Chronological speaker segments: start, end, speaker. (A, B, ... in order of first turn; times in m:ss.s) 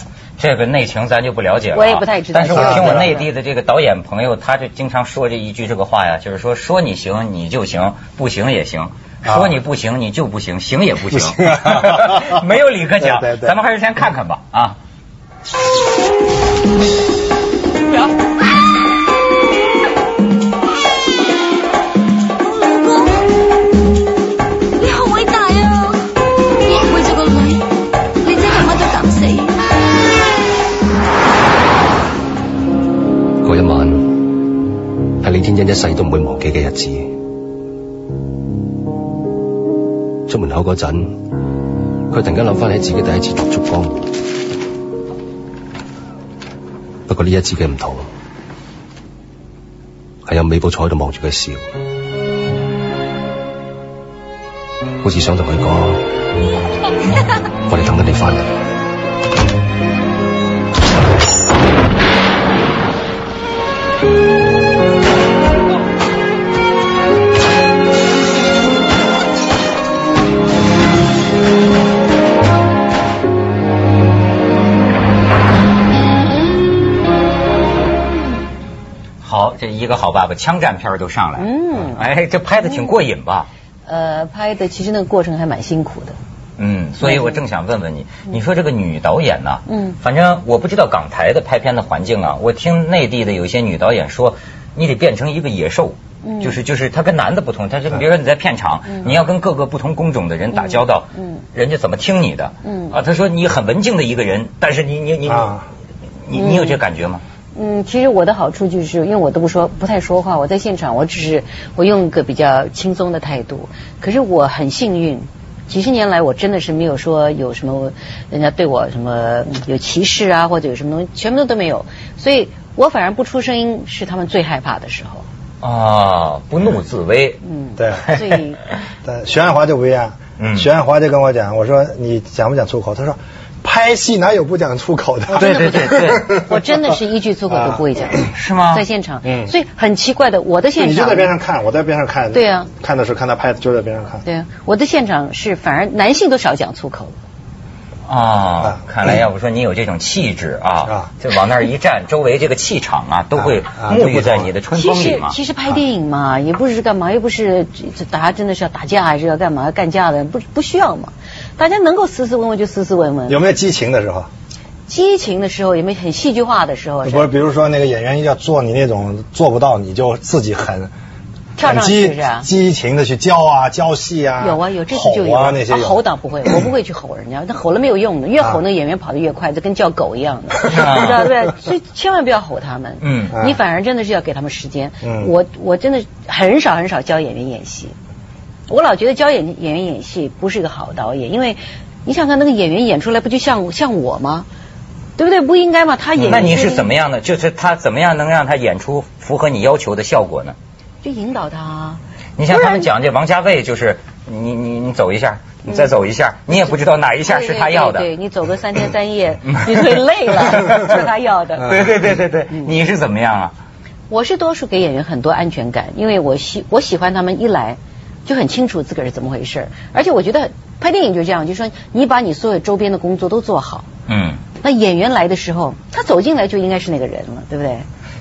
0:00.4-0:14.8 A
0:01.7-0:03.3 B
0:02.5-0:03.1 C
0:09.2-0:09.6 C
0:11.1-0:12.4 C
0:13.0-0:13.6 C
0:22.4-0:23.2 D
0:24.8-0:26.0 D
0:26.6-0:27.6 D
0:28.2-0:29.6 D
0:33.4-0:34.5 E
0:35.2-0:37.2 E
0:40.3-0:41.3 E
0:42.1-0:44.1 E
0:47.1-0:48.1 E
0:50.2-0:51.7 E
0:55.0-0:56.1 E
0:57.6-0:58.5 E
1:19.2-1:23.5 A
1:21.4-1:22.0 B
1:22.6-1:22.9 B
1:23.9-1:26.2 B
1:26.6-1:45.5 A
1:27.0-1:27.4 B
1:29.7-1:30.0 B
1:36.2-1:36.6 B
1:40.5-1:41.4 B
1:42.6-1:43.0 B
1:45.3-1:45.6 C
1:46.2-1:47.2 A
1:46.3-1:46.8 B
1:47.5-2:05.2 B
2:05.6-2:07.4 A
2:07.4-2:08.6 B
2:07.8-2:08.2 C
2:09.0-2:17.0 C
2:10.4-2:10.7 A
2:15.3-2:21.3 B
2:15.3-2:16.3 A
2:17.5-2:17.8 C
2:18.3-2:18.8 A
2:19.2-2:19.5 C
2:20.8-2:24.2 C
2:22.3-2:22.7 B
2:24.2-2:27.2 B
2:28.0-2:35.4 A
2:28.6-2:29.1 C
2:33.4-2:34.5 C
2:34.7-2:43.4 B
2:43.3-2:44.3 C
2:44.9-2:47.3 B
2:47.0-2:50.9 C
2:51.6-2:52.5 B
2:51.6-2:56.0 C
2:54.4-3:07.9 B
3:00.7-3:01.3 A
3:03.0-3:03.3 A
3:03.3-3:03.6 C
3:05.0-3:05.3 C
3:08.7-3:14.5 B
3:15.2-3:16.9 B
3:16.2-3:20.5 A
3:21.0-3:22.9 B
3:22.4-3:28.1 A
3:27.2-3:31.8 B
3:29.5-3:29.9 A
3:30.6-3:30.9 A
3:31.6-3:33.5 A
3:34.1-3:43.9 B
3:44.1-3:44.4 A
3:44.6-3:47.8 B